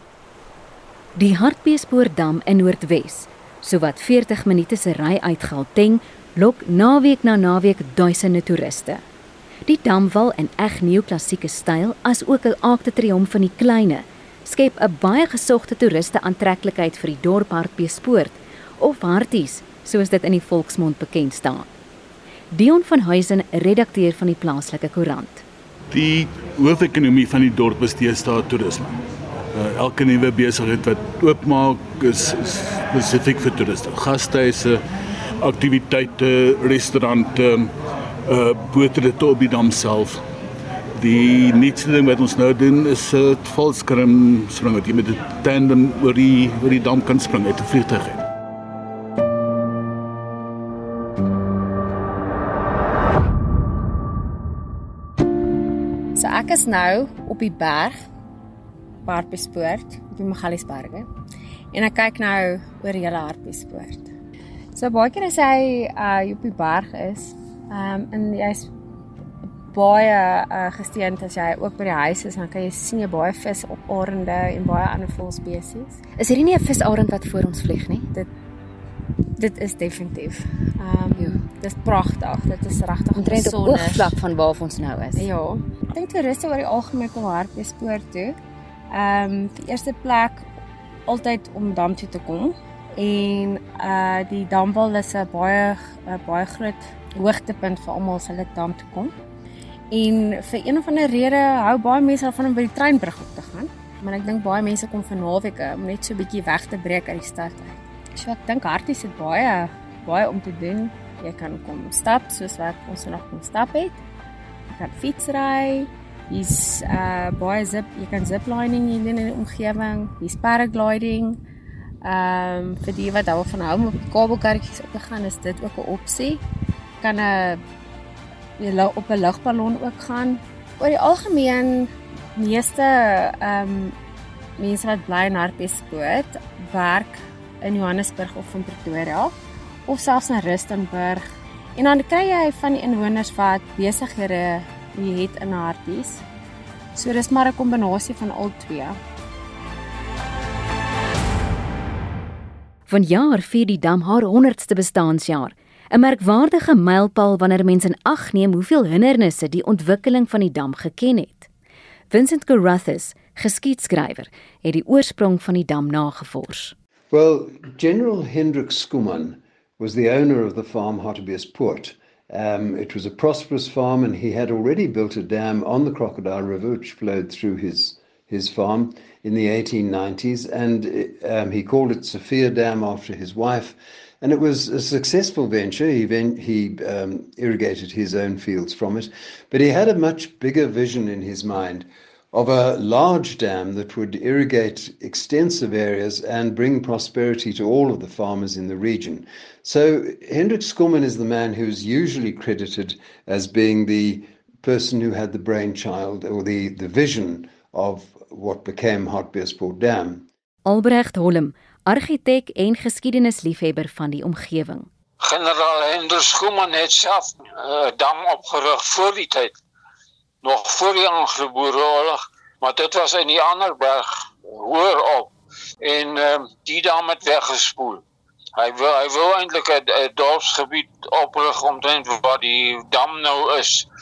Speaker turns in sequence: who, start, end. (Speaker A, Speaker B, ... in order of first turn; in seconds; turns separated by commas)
Speaker A: 1.2-9.0, Speaker A: 9.7-21.7, Speaker A: 22.5-25.4, Speaker B: 25.9-29.0, Speaker B: 29.5-34.8, Speaker B: 35.4-37.7, Speaker B: 38.3-40.2, Speaker B: 41.0-48.2, Speaker C: 56.1-58.0, Speaker C: 59.0-61.1, Speaker C: 61.7-64.1, Speaker C: 64.7-68.7, Speaker C: 69.7-76.0, Speaker A: 76.2-78.1, Speaker C: 79.4-84.2, Speaker A: 83.2-85.2, Speaker C: 85.2-88.4, Speaker C: 88.9-90.5, Speaker C: 91.1-99.1, Speaker C: 99.9-114.0, Speaker C: 114.7-121.4, Speaker C: 122.0-126.4, Speaker C: 127.0-127.6, Speaker C: 128.6-134.0, Speaker C: 134.6-139.3, Speaker C: 139.9-141.2, Speaker C: 141.8-146.2, Speaker C: 146.9-149.0, Speaker A: 152.9-161.5, Speaker A: 162.1-166.8, Speaker D: 167.1-210.3, Speaker A: 210.7-214.9, Speaker E: 215.2-219.6, Speaker E: 220.4-225.3, Speaker E: 225.8-228.0, Speaker E: 228.6-233.9